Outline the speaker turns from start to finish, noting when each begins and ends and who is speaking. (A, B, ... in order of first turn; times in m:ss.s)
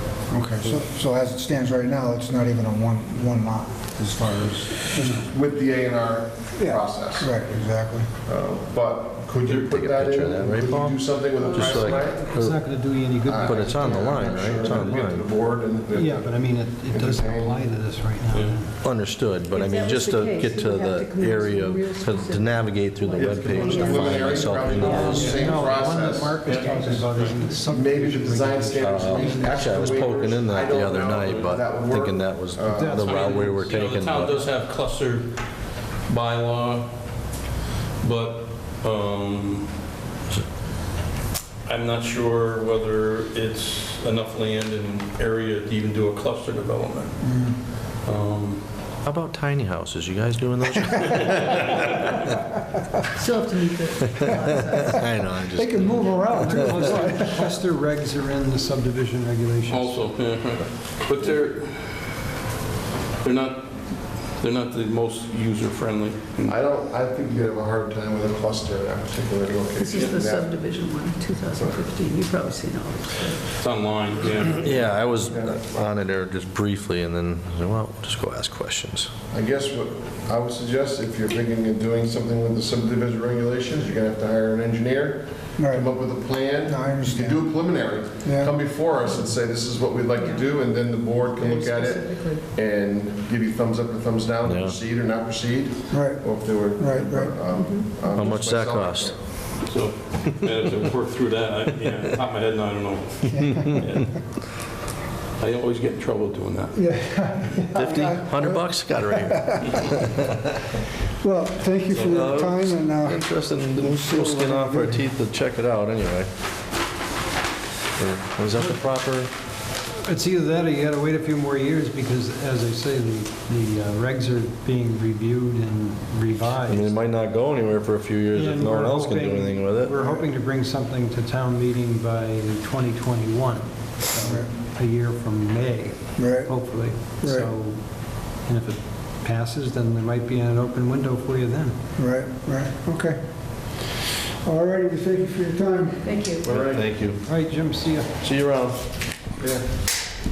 0:00.3-0:05.3 A
0:05.0-0:07.3 B
0:06.6-0:08.1 A
0:08.3-0:12.3 B
0:09.6-0:12.6 C
0:11.4-0:12.0 D
0:11.8-0:15.0 E
0:13.2-0:16.3 B
0:13.4-0:15.2 C
0:15.9-0:18.8 E
0:16.8-0:17.6 B
0:18.3-0:18.6 F
0:18.8-0:25.4 C
0:19.5-0:25.6 D
0:23.1-0:27.0 B
0:25.1-0:29.9 E
0:26.4-0:27.4 F
0:27.6-0:33.2 B
0:28.8-0:34.4 C
0:32.7-0:33.8 E
0:33.0-0:35.3 F
0:36.1-0:36.9 F
0:38.0-0:39.7 F
0:41.6-0:47.2 F
0:47.2-0:47.6 A
0:48.0-0:48.6 F
0:49.0-0:52.3 C
0:53.1-0:55.1 D
0:54.2-0:57.0 C
0:55.5-0:57.5 A
0:56.4-1:00.1 E
0:59.7-1:02.0 F
1:03.2-1:06.6 F
1:06.5-1:10.5 B
1:09.8-1:13.4 D
1:11.5-1:11.8 B
1:13.6-1:14.9 F
1:14.5-1:19.1 C
1:15.2-1:15.6 B
1:19.3-1:39.2 B
1:25.6-1:26.0 A
1:26.6-1:27.7 A
1:28.2-1:28.6 A
1:30.1-1:32.4 D
1:34.4-1:34.8 C
1:35.9-1:37.4 A
1:37.5-1:38.4 D
1:38.1-1:39.1 C
1:39.6-1:44.2 F
1:43.3-1:44.1 A
1:45.4-1:46.8 F
1:46.7-1:50.0 A
1:47.7-1:50.4 C
1:51.2-1:55.0 A
1:51.9-1:52.2 F
1:51.9-1:56.3 C
1:58.0-1:59.3 C
2:00.0-2:07.0 E
2:06.6-2:09.9 C
2:08.3-2:21.7 E
2:10.0-2:10.3 A
2:14.2-2:14.5 A
2:16.2-2:17.5 A
2:22.0-2:23.2 A
2:24.4-2:26.3 A
2:26.0-2:26.5 D
2:26.4-2:27.3 C
2:26.4-2:26.9 B
2:27.2-2:28.2 E
2:28.2-2:28.8 C
2:29.4-2:29.6 B